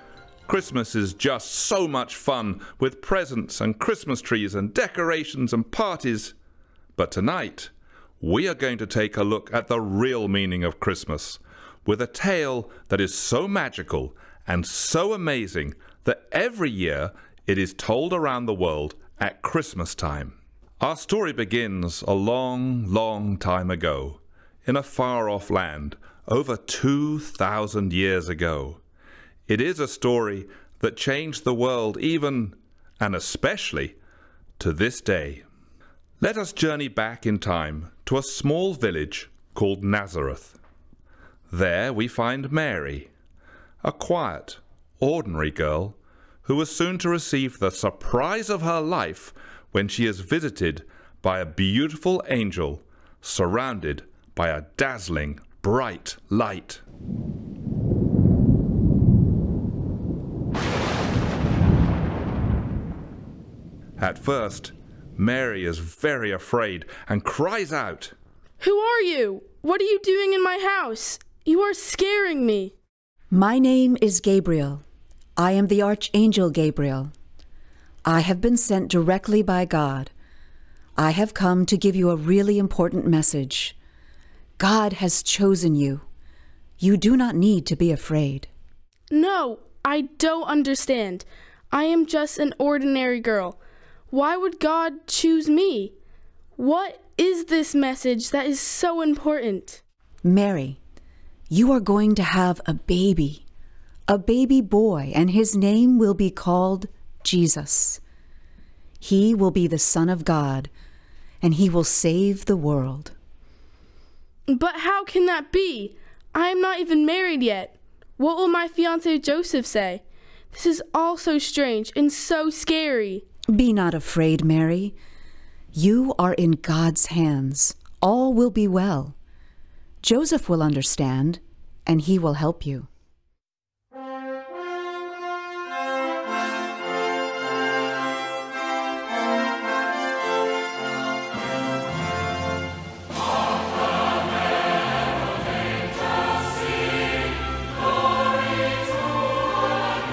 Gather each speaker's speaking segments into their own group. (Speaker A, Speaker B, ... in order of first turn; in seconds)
Speaker A: 0.5-6.3, 7.0-28.8, 29.5-34.0, 34.6-35.4, 36.2-40.6, 41.5-43.1, 43.8-56.8, 64.0-68.1
Speaker B: 68.6-72.7, 89.1-93.5, 94.1-95.9, 96.6-99.8, 114.5-123.2
Speaker C: 73.3-74.8, 75.4-77.1, 78.0-80.1, 81.0-83.8, 84.6-86.0, 86.8-88.5, 100.2-100.8, 101.5-103.5, 104.1-108.0, 109.0-110.7, 111.4-113.1, 123.5-125.0, 125.7-129.2, 130.0-132.9